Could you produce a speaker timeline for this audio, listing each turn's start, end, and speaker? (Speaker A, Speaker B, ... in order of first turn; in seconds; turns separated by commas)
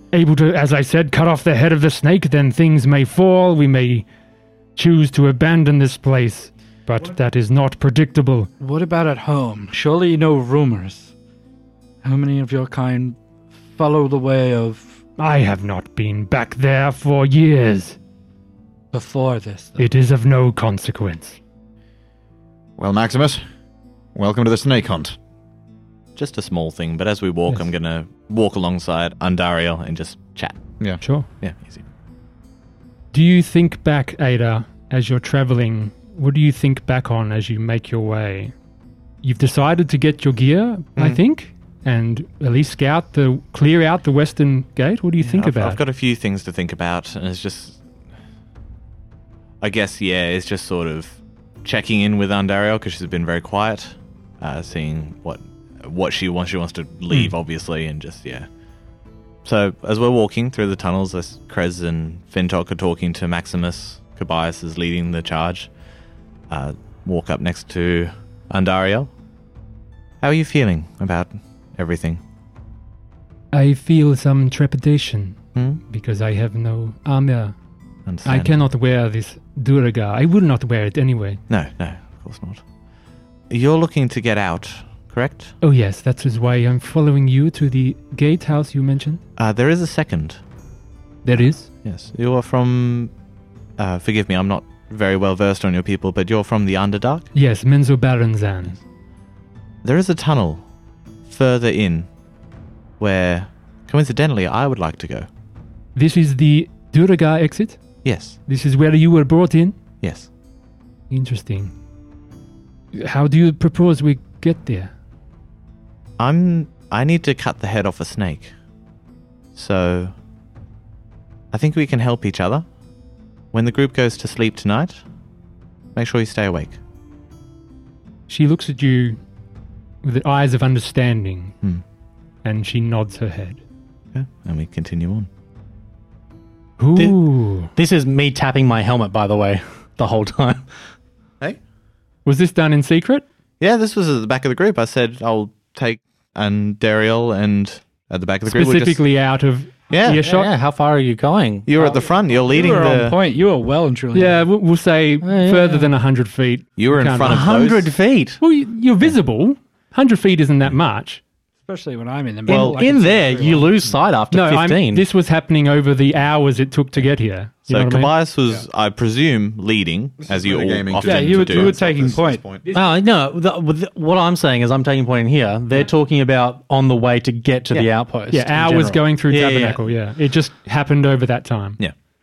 Speaker A: 0.1-4.0, Speaker A: 4.8-8.5, Speaker B: 8.6-11.1, Speaker B: 12.0-13.2, Speaker B: 13.7-15.0, Speaker A: 15.2-18.0, Speaker B: 18.9-19.9, Speaker A: 19.8-21.4, Speaker C: 22.8-23.4, Speaker C: 24.1-25.1, Speaker D: 26.1-30.6, Speaker A: 31.0-31.3, Speaker D: 31.4-31.8, Speaker A: 33.1-38.5, Speaker A: 39.2-45.8, Speaker D: 45.2-47.8, Speaker D: 49.6-58.5, Speaker D: 59.4-65.7, Speaker D: 66.5-69.1, Speaker D: 70.2-72.2, Speaker A: 73.5-77.5, Speaker D: 75.5-75.8, Speaker D: 78.0-78.6, Speaker A: 78.2-81.4, Speaker D: 81.5-82.6, Speaker D: 83.5-85.5, Speaker A: 85.6-89.2, Speaker D: 89.4-90.4, Speaker A: 91.2-91.7, Speaker D: 91.3-93.1, Speaker D: 93.8-97.3, Speaker A: 97.3-98.8, Speaker D: 99.8-100.6, Speaker D: 101.2-102.1, Speaker D: 103.0-105.3, Speaker A: 105.9-107.8, Speaker D: 108.0-108.4, Speaker A: 108.5-109.8, Speaker D: 110.0-110.3, Speaker A: 111.1-111.7, Speaker A: 112.9-114.9, Speaker D: 116.2-118.5, Speaker D: 119.5-120.1, Speaker D: 121.5-122.7, Speaker D: 123.5-125.0, Speaker D: 125.9-126.8, Speaker A: 128.3-129.2, Speaker A: 130.0-131.5, Speaker A: 132.4-133.6, Speaker D: 134.1-135.3, Speaker A: 136.8-137.7, Speaker E: 137.0-140.7, Speaker A: 142.2-143.2, Speaker D: 143.6-149.0, Speaker A: 148.4-150.5, Speaker D: 149.9-150.3, Speaker E: 150.2-151.7, Speaker D: 151.7-153.2, Speaker B: 151.8-154.4, Speaker A: 154.1-157.5, Speaker E: 155.2-155.9, Speaker D: 156.8-157.9, Speaker E: 157.2-158.4, Speaker A: 158.4-161.2, Speaker B: 161.7-163.7, Speaker E: 162.4-165.1, Speaker A: 164.3-168.1, Speaker D: 167.7-171.8, Speaker C: 170.2-172.7, Speaker B: 171.0-172.4, Speaker E: 172.7-179.8, Speaker A: 178.3-181.8